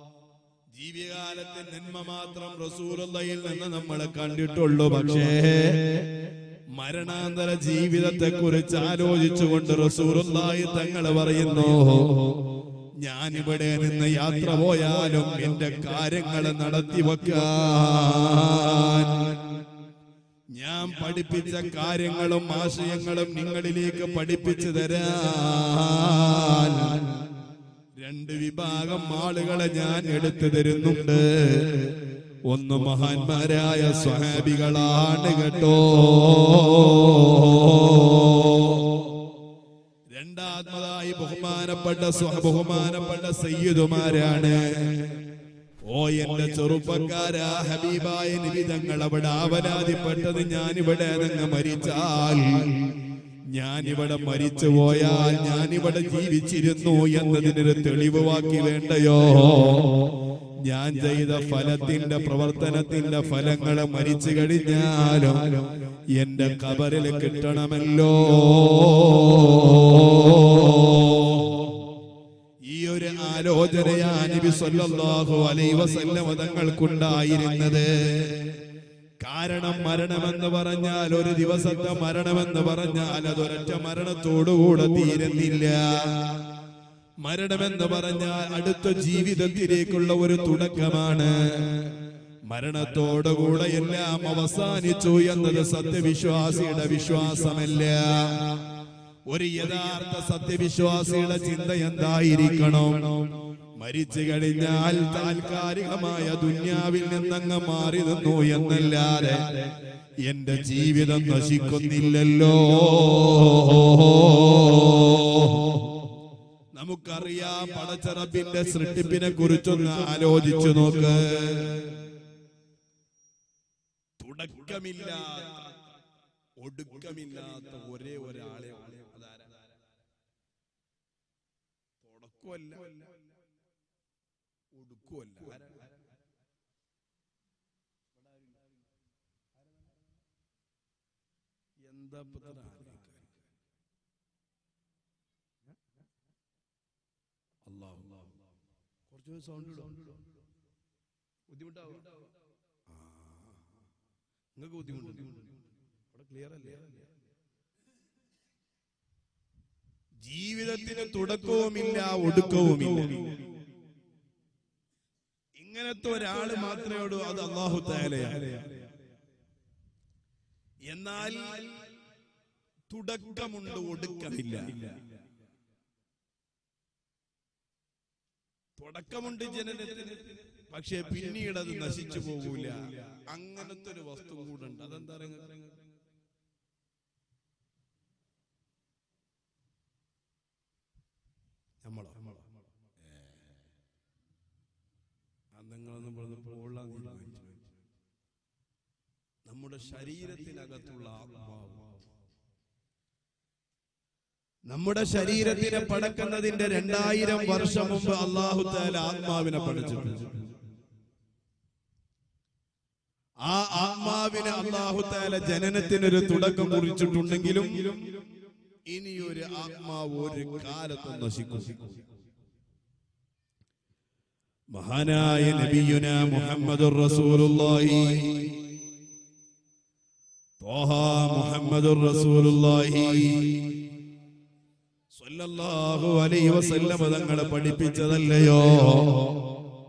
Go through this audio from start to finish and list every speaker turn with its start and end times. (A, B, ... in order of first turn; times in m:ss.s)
0:00.7-0:06.1 A
0:06.7-0:12.4 A
0:13.0-0:19.6 A
0:20.5-0:27.3 A
0:28.0-0:39.1 A
0:40.1-0:45.2 A
0:45.8-0:52.9 A
0:53.5-1:11.9 A
1:12.6-1:18.5 A
1:19.2-1:26.4 A
1:27.2-1:38.6 A
1:39.3-1:49.7 A
1:50.2-1:56.0 A
1:56.7-2:01.9 A
2:04.2-2:05.8 A
2:06.6-2:09.6 A
2:12.0-2:13.2 A
2:14.7-2:15.9 A
2:21.8-2:23.4 A
2:27.6-2:28.4 A
2:29.1-2:30.1 A
2:31.5-2:32.1 A
2:32.9-2:33.6 A
2:34.6-2:35.5 A
2:36.1-2:37.0 A
2:40.2-2:43.4 A
2:45.6-2:48.8 A
2:50.8-2:51.9 A
2:52.9-2:55.0 A
2:58.8-3:05.8 A
3:11.8-3:12.4 A
3:15.5-3:17.7 A
3:19.4-3:22.0 A
3:24.7-3:30.4 A
3:33.4-3:38.1 A
3:38.9-3:42.0 A
3:44.7-3:48.6 A
3:50.6-3:53.7 A
3:55.1-3:59.4 A